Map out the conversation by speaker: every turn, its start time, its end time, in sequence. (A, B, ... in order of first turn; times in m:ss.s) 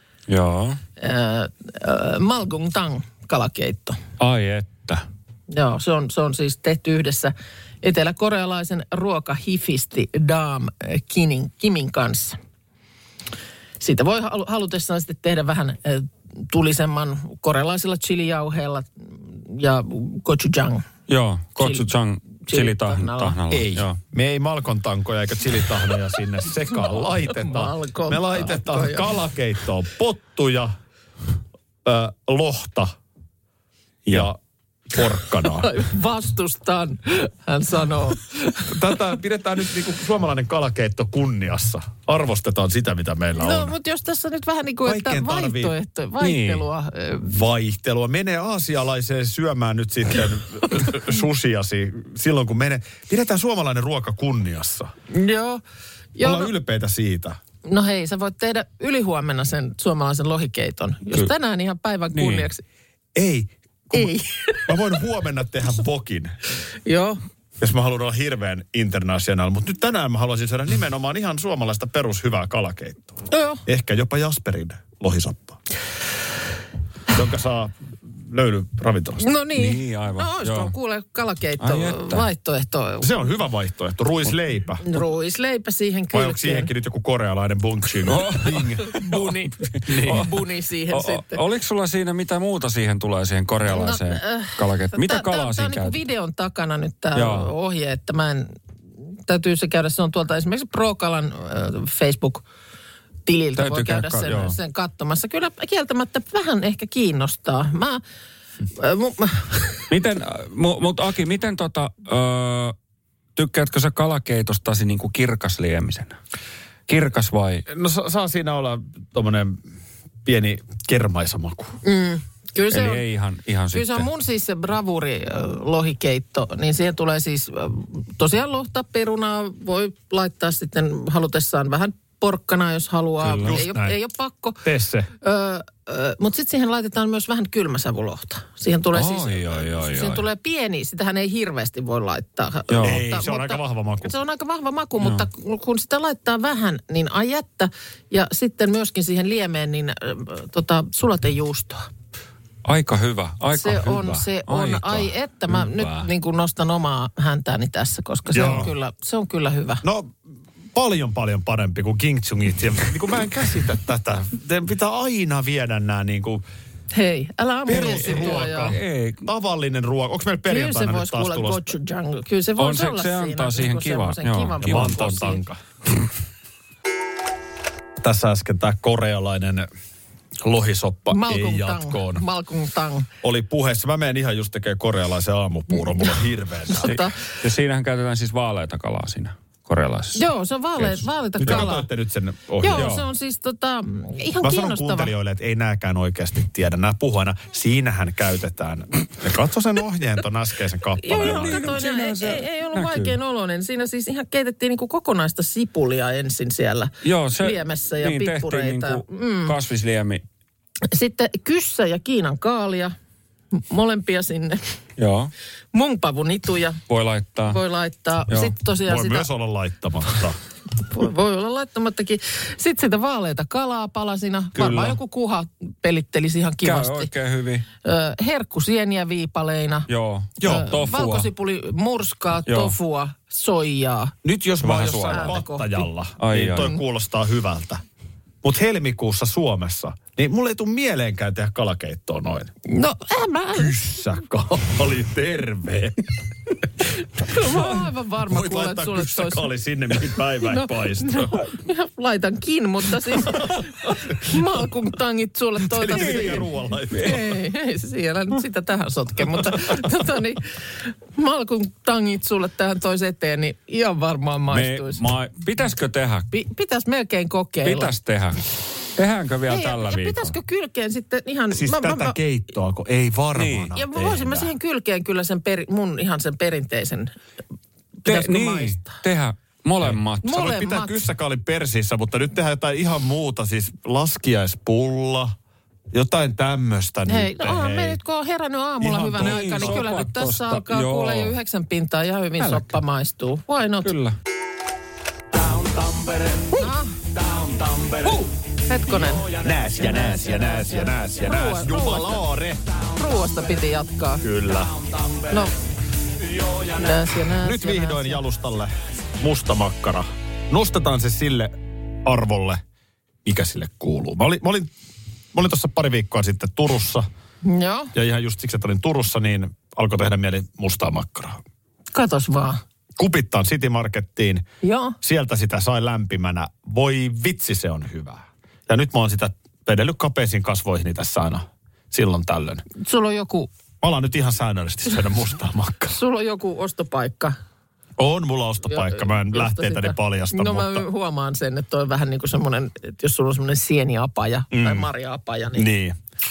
0:00.3-0:00.8 A
0:01.0-0:04.0 B
0:04.2-0:05.0 A
0:05.5-0:12.4 B
0:13.8-0:20.8 B
0:21.1-0:24.0 A
0:21.6-0:21.9 B
0:22.4-0:23.4 B
0:23.5-0:30.7 C
0:27.3-0:29.1 B
0:31.8-0:32.9 C
0:34.1-0:34.4 C
0:34.9-0:35.7 C
0:35.5-0:38.8 B
0:38.7-0:43.7 C
0:43.4-0:47.3 B
0:44.8-0:45.7 C
0:46.2-0:46.6 A
0:47.2-0:54.9 C
0:55.1-0:55.6 B
0:56.1-0:56.5 B
0:56.2-0:57.4 C
0:57.6-1:02.6 B
1:02.1-1:02.5 A
1:03.1-1:04.1 C
1:03.9-1:04.7 B
1:04.6-1:06.4 C
1:06.8-1:07.2 B
1:07.6-1:15.6 C
1:13.3-1:13.6 B
1:17.1-1:19.2 C
1:19.2-1:23.1 B
1:19.5-1:20.7 A
1:21.6-1:22.2 A
1:23.0-1:24.8 C
1:24.8-1:26.7 B
1:26.1-1:29.1 C
1:28.1-1:29.3 A
1:28.9-1:31.4 B
1:29.8-1:30.3 C
1:29.8-1:30.3 A
1:30.9-1:36.0 A
1:33.7-1:38.5 B
1:37.1-1:37.5 A
1:39.3-1:42.4 B
1:43.2-1:48.0 B
1:43.6-1:44.6 A
1:48.7-1:49.9 B
1:49.9-1:52.7 A
1:53.4-1:56.2 A
1:56.9-1:57.6 A
1:57.7-1:59.6 C
2:00.2-2:01.7 C
2:01.8-2:03.0 B
2:02.7-2:04.1 A
2:03.7-2:14.6 B
2:13.2-2:13.6 A
2:13.3-2:14.0 C
2:14.6-2:15.1 C
2:15.2-2:31.9 B
2:18.9-2:20.2 A
2:22.7-2:23.0 A
2:22.8-2:24.1 C
2:25.0-2:25.2 A
2:32.6-2:36.1 A
2:33.5-2:39.8 B
2:38.3-2:38.7 C
2:39.8-2:40.1 C
2:40.7-2:46.4 C
2:46.9-2:48.7 B
2:47.7-2:51.7 C
2:47.7-2:49.3 A
2:50.5-2:55.4 B
2:52.6-2:55.3 A
2:54.6-2:55.6 C
2:58.0-2:59.7 C
3:00.4-3:02.2 C
3:01.1-3:03.1 B
3:03.2-3:07.0 C
3:06.7-3:07.2 B
3:06.8-3:10.2 A
3:10.1-3:11.8 B
3:11.4-3:12.9 C
3:12.6-3:15.1 B
3:12.7-3:13.0 A
3:14.4-3:21.8 C
3:21.0-3:29.5 B
3:21.1-3:23.1 A
3:27.0-3:30.2 A
3:30.9-3:32.9 B
3:33.5-3:34.7 B
3:35.0-3:35.3 A
3:35.7-3:36.8 B
3:36.9-3:37.6 A
3:37.5-3:39.3 B
3:38.3-3:38.5 A
3:38.8-3:40.4 C
3:40.8-3:47.1 B
3:44.5-3:45.0 A
3:46.6-3:47.6 A
3:47.8-3:49.9 B
3:49.9-3:51.3 A
3:50.4-3:50.6 C
3:50.4-3:54.1 B
3:52.5-3:52.7 A
3:54.2-3:57.8 C
3:54.6-3:55.4 A
3:55.1-3:55.7 B
3:56.2-3:56.8 A
3:58.4-4:02.5 C
4:02.6-4:03.7 B
4:03.5-4:06.1 C
4:07.2-4:09.5 B
4:07.3-4:07.7 C
4:08.2-4:11.3 C
4:10.4-4:25.1 B
4:15.7-4:17.3 C
4:16.0-4:16.3 A
4:24.5-4:26.3 A
4:26.3-4:27.9 B
4:27.6-4:30.3 A
4:29.5-4:32.2 B
4:31.5-4:34.5 C
4:33.4-4:33.7 A
4:33.7-4:37.1 B
4:38.0-4:39.0 B
4:38.0-4:40.5 A
4:39.8-4:45.3 C
4:40.2-4:41.0 B
4:45.9-4:48.0 C
4:47.1-4:53.9 B
4:48.8-4:49.8 C
4:49.2-4:51.3 A
4:52.4-4:52.7 A
4:53.8-4:54.2 A
4:55.4-4:56.6 A
4:56.5-4:57.0 B
4:57.2-4:58.2 A
4:58.6-5:02.2 B
4:58.9-4:59.5 A
4:59.4-5:02.6 C
5:02.9-5:04.2 B
5:04.2-5:04.8 C
5:05.3-5:05.5 B
5:06.4-5:06.7 A
5:06.7-5:08.2 B
5:07.3-5:12.6 C
5:13.2-5:14.7 C
5:15.3-5:17.0 C
5:17.4-5:17.9 B
5:17.9-5:21.4 C
5:21.9-5:22.6 B
5:23.0-5:24.4 C
5:24.6-5:25.0 B
5:25.0-5:32.6 C
5:32.8-5:33.5 B
5:33.8-5:36.0 C
5:35.9-5:37.4 B
5:38.0-5:40.8 C
5:38.6-5:45.6 B
5:44.5-5:44.9 C
5:45.5-5:46.0 C